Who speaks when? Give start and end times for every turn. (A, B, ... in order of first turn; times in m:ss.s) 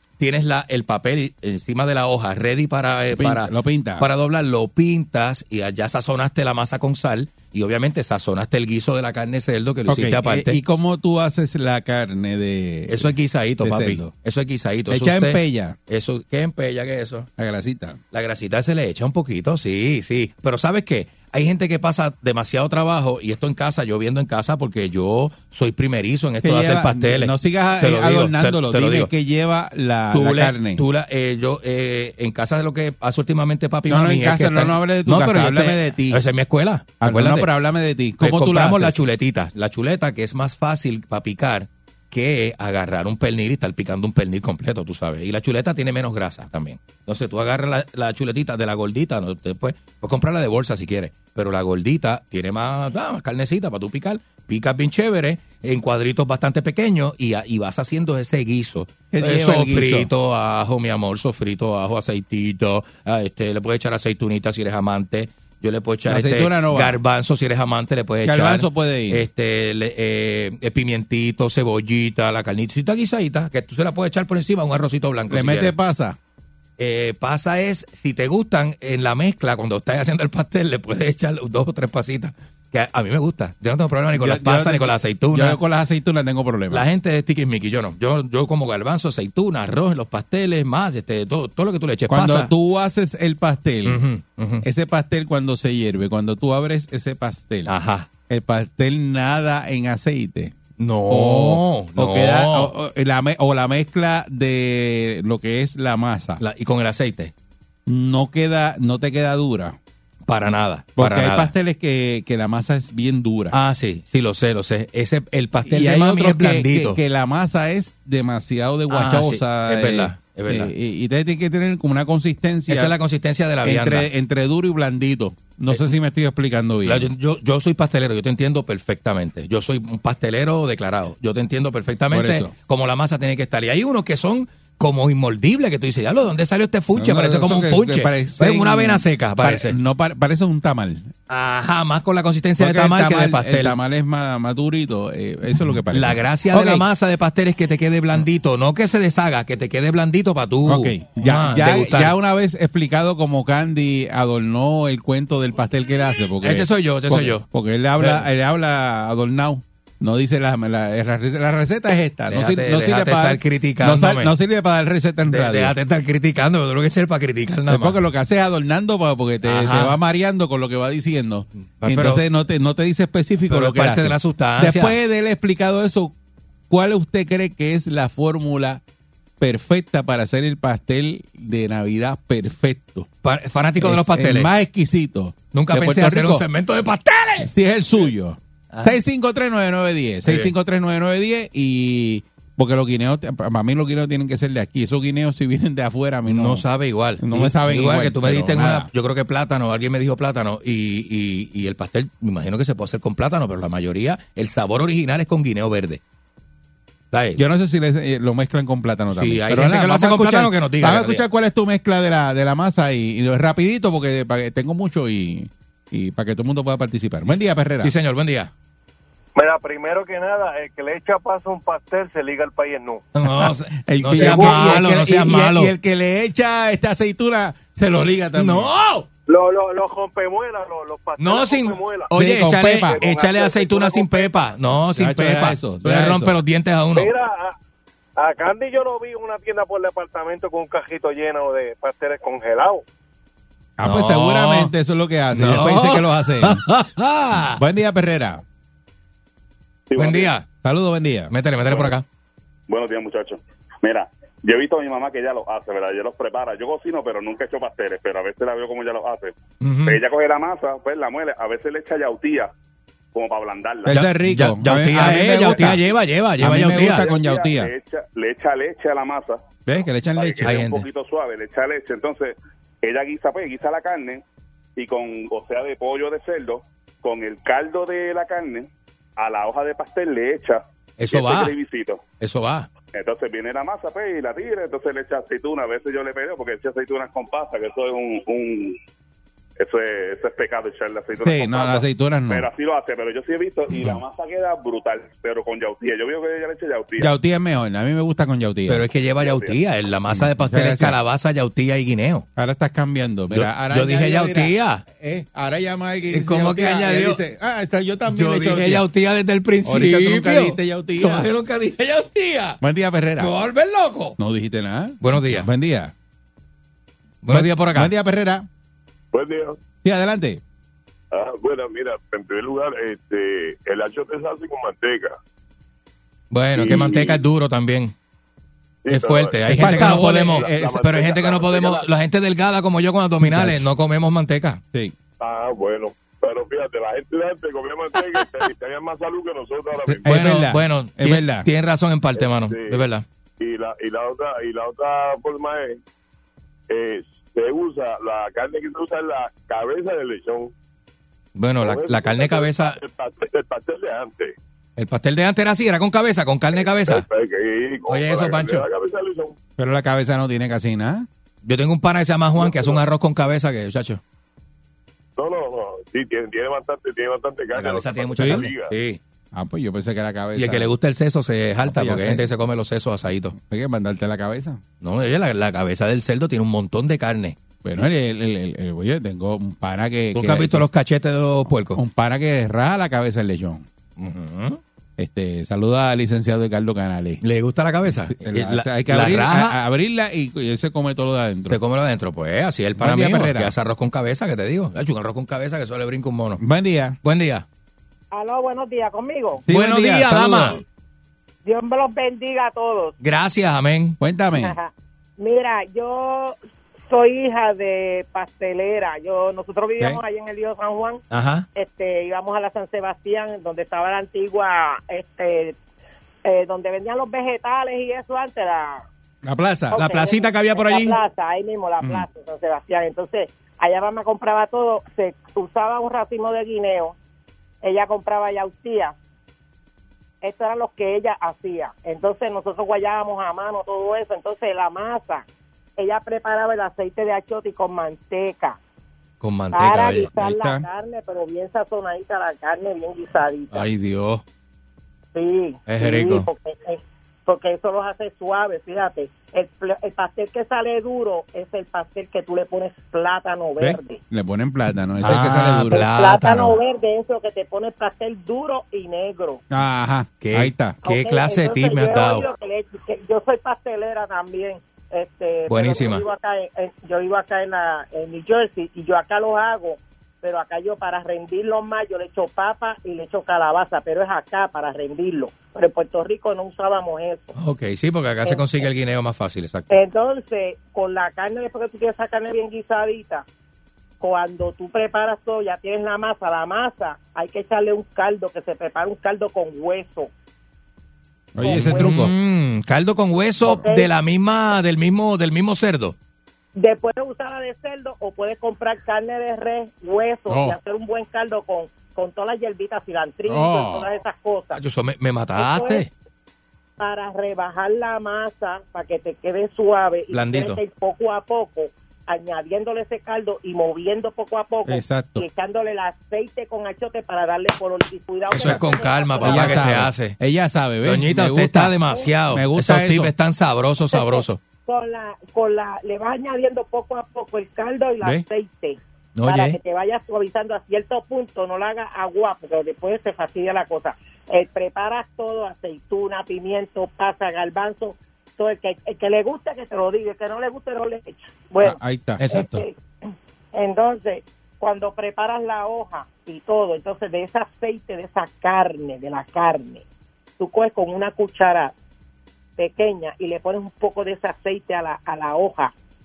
0:00.2-0:10.6 A
0:03.2-0:04.0 B
0:09.9-0:14.1 B
0:12.9-0:17.3 A
0:14.9-0:15.8 B
0:17.4-0:18.0 B
0:18.1-0:29.1 A
0:26.4-0:30.8 B
0:30.1-0:37.5 A
0:33.9-0:36.2 B
0:37.0-0:39.0 B
0:38.2-1:15.7 A
0:59.1-1:00.1 B
1:06.0-1:07.0 B
1:08.2-1:09.2 B
1:15.3-1:16.2 B
1:16.8-1:25.6 A
1:24.1-1:26.8 B
1:26.7-1:32.5 A
1:32.1-1:34.0 B
1:33.8-1:34.6 A
1:34.6-1:37.7 B
1:37.7-1:38.1 A
1:38.3-1:40.5 B
1:40.8-1:42.7 A
1:41.1-1:46.4 B
1:46.4-1:47.3 A
1:47.9-1:49.8 B
1:50.2-1:51.5 A
1:51.0-1:53.6 B
1:53.5-1:57.0 A
1:55.6-2:02.9 B
1:58.9-2:00.7 A
2:02.7-2:04.1 A
2:03.6-2:07.1 B
2:06.8-2:19.8 A
2:12.1-2:12.5 B
2:17.0-2:21.1 B
2:21.3-2:23.8 A
2:22.6-2:26.8 B
2:25.9-2:32.1 A
2:30.6-2:45.7 B
2:36.4-2:37.4 A
2:38.0-2:38.2 A
2:42.3-2:44.3 A
2:45.3-2:48.0 A
2:47.7-2:56.1 B
2:49.4-2:50.0 A
2:51.8-2:52.2 A
2:53.5-2:55.0 A
2:56.7-2:58.8 B
2:59.4-3:03.1 B
3:03.2-3:04.5 A
3:03.8-3:06.4 B
3:05.5-3:07.5 A
3:07.4-3:16.6 B
3:08.7-3:09.0 A
3:10.2-3:10.5 A
3:16.3-3:26.0 A
3:17.2-3:18.9 B
3:27.1-3:27.4 A
3:27.4-3:37.9 B
3:29.1-3:31.2 A
3:37.8-3:38.5 A
3:39.4-3:43.0 C
3:43.1-3:45.7 A
3:43.2-3:48.7 B
3:44.2-3:44.7 C
3:48.3-3:49.0 A
3:49.3-3:52.1 C
3:51.2-3:57.1 A
3:52.1-3:53.0 B
3:52.8-3:54.5 C
3:54.9-3:56.4 B
3:56.9-3:57.5 C
3:58.2-4:02.8 C
4:03.8-4:06.6 B
4:03.8-4:04.7 A
4:05.3-4:07.6 A
4:07.5-4:08.4 B
4:09.9-4:10.3 D
4:10.0-4:10.4 A
4:10.6-4:11.3 B
4:11.3-4:12.0 A
4:12.7-4:19.3 D
4:19.6-4:20.0 A
4:19.8-4:22.5 D
4:23.1-4:24.0 D
4:23.8-4:25.8 B
4:23.9-4:27.1 A
4:26.4-4:27.7 B
4:26.7-4:29.4 D
4:29.6-4:30.6 B
4:30.2-4:34.2 D
4:30.4-4:30.9 A
4:34.8-4:42.0 D
4:41.0-4:41.6 A
4:42.2-4:42.7 A
4:42.9-4:48.8 D
4:49.6-4:57.1 D
4:51.2-4:52.4 B
4:57.0-4:58.8 B
4:58.7-5:02.2 A
4:59.2-4:59.5 D
5:00.1-5:01.0 B
5:02.4-5:08.8 B
5:03.3-5:04.8 A
5:06.1-5:07.2 A
5:08.1-5:12.6 A
5:09.6-5:11.3 B
5:12.6-5:13.3 B
5:13.2-5:14.2 A
5:14.2-5:15.9 B
5:15.0-5:15.5 A
5:17.2-5:17.9 A
5:17.3-5:18.5 B
5:19.1-5:19.6 E
5:19.8-5:20.4 B
5:21.1-5:25.1 E
5:26.3-5:27.9 A
5:26.5-5:27.2 E
5:28.8-5:31.9 E
5:28.9-5:34.6 A
5:29.5-5:30.7 B
5:33.2-5:33.7 B
5:35.2-5:40.0 E
5:40.0-5:41.5 B
5:40.0-5:43.0 A
5:42.2-5:42.8 E
5:43.4-5:45.8 E
5:46.7-5:50.5 E
5:51.4-5:52.8 A
5:51.6-5:54.3 E
5:54.8-5:57.0 A
5:56.5-5:59.4 E
5:57.9-5:58.7 A
5:59.6-6:01.1 B
6:01.4-6:04.0 A
6:02.4-6:02.8 E
6:05.2-6:08.7 E
6:07.5-6:09.0 A
6:09.3-6:10.7 B
6:10.4-6:13.3 A
6:11.6-6:12.2 B
6:13.3-6:14.6 B
6:14.8-6:17.4 A
6:17.6-6:20.6 B
6:20.1-6:21.8 A
6:21.7-6:23.6 B
6:24.0-6:24.6 A
6:25.0-6:27.2 B
6:27.2-6:29.6 A
6:27.9-6:31.6 B
6:31.5-6:36.4 A
6:32.8-6:33.5 B
6:36.4-6:37.0 B
6:37.0-6:37.4 A
6:38.1-6:39.4 F
6:39.4-6:40.6 B
6:39.5-6:40.6 A
6:41.4-6:42.9 F
6:43.0-6:44.0 A
6:44.0-6:44.6 B
6:44.4-6:46.4 F
6:46.9-6:51.0 F
6:51.1-6:51.4 A
6:51.5-6:55.5 F
6:56.2-6:58.8 F
6:59.2-6:59.8 B
6:59.7-7:01.0 A
6:59.7-7:06.9 F
7:01.8-7:02.1 B
7:07.6-7:08.9 F
7:10.2-7:15.2 F
7:15.8-7:18.6 F
7:19.2-7:20.1 A
7:19.5-7:23.7 F
7:20.1-7:20.6 B
7:23.5-7:24.2 A
7:25.1-7:34.0 F
7:25.7-7:26.3 A
7:33.6-7:35.9 B
7:35.0-7:36.6 A
7:35.7-7:39.4 F
7:39.5-7:40.8 B
7:40.2-7:42.2 A
7:40.8-7:57.3 F
7:45.5-7:46.0 A
7:57.4-7:59.8 A
7:58.2-7:58.6 F
7:59.7-8:03.2 F
8:04.0-8:10.1 F
8:11.3-8:12.1 B
8:11.4-8:12.0 F
8:11.4-8:15.9 A
8:13.4-8:13.9 F
8:16.6-8:24.6 F
8:20.3-8:20.6 B
8:23.3-8:23.9 B
8:24.5-8:25.9 A
8:25.4-8:25.8 F
8:26.8-8:39.7 F
8:30.1-8:30.6 A
8:34.6-8:35.2 B
8:38.3-8:40.2 A
8:39.2-8:43.1 B
8:40.8-8:44.4 A
8:43.9-9:01.8 F
8:49.2-8:49.6 A
9:01.6-9:02.2 B
9:02.2-9:02.6 A
9:02.3-9:02.7 F
9:03.5-9:09.8 F
9:10.4-9:11.7 F
9:12.6-9:15.7 F